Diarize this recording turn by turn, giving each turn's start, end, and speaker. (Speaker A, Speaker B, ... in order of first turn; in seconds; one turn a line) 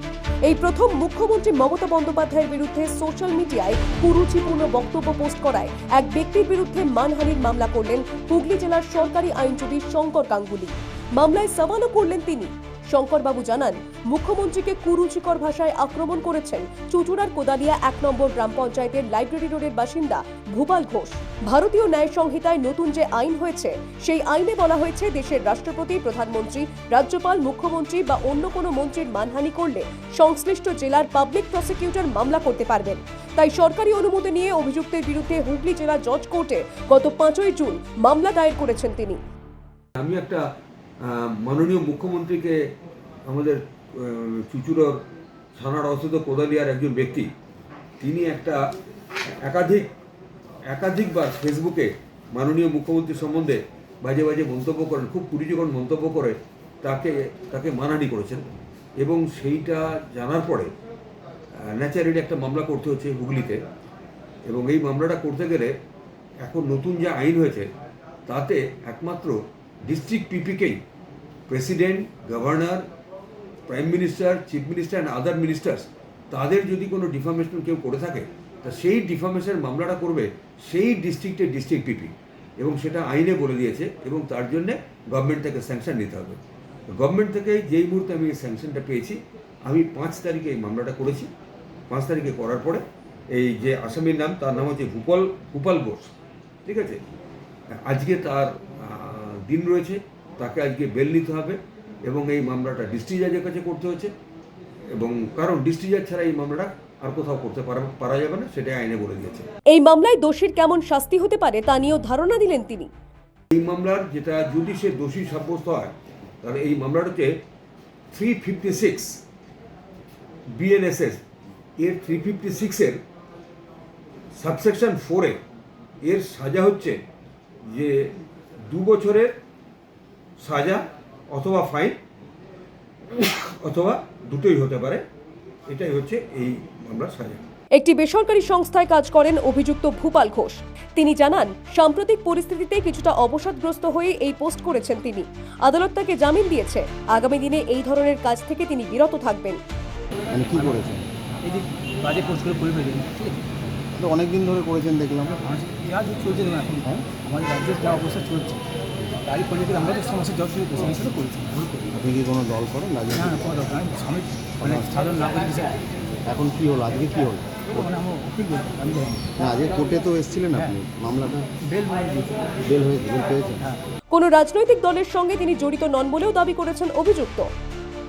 Speaker A: 0.4-39.2
Speaker B: 40.0-40.4
Speaker B: 41.0-42.6
Speaker B: 43.2-45.0
Speaker B: 45.5-47.3
Speaker B: 48.0-48.6
Speaker B: 49.4-49.9
Speaker B: 50.7-58.4
Speaker B: 59.0-60.7
Speaker B: 61.6-63.6
Speaker B: 64.5-65.7
Speaker B: 66.4-67.7
Speaker B: 68.3-70.8
Speaker B: 71.5-72.8
Speaker B: 73.7-86.4
Speaker B: 86.9-91.3
Speaker B: 91.9-96.1
Speaker B: 96.6-97.0
Speaker B: 97.8-104.1
Speaker B: 104.9-109.5
Speaker A: 109.7-112.9
Speaker B: 113.5-117.3
Speaker B: 118.1-119.2
Speaker B: 120.5-121.2
Speaker B: 121.8-123.0
Speaker B: 124.4-125.4
Speaker B: 126.0-127.0
Speaker B: 127.7-128.1
Speaker B: 128.7-129.3
Speaker B: 130.4-132.0
Speaker B: 133.1-135.0
Speaker B: 135.7-137.4
Speaker A: 137.8-149.6
Speaker C: 150.3-151.1
Speaker D: 151.4-153.4
Speaker C: 153.9-155.4
Speaker D: 155.4-158.7
Speaker D: 159.2-162.0
Speaker C: 161.9-163.4
Speaker D: 163.1-165.8
Speaker C: 164.6-164.9
Speaker C: 166.2-167.7
Speaker D: 167.7-169.3
Speaker C: 169.4-171.5
Speaker D: 171.6-172.6
Speaker C: 172.6-173.7
Speaker A: 174.1-177.5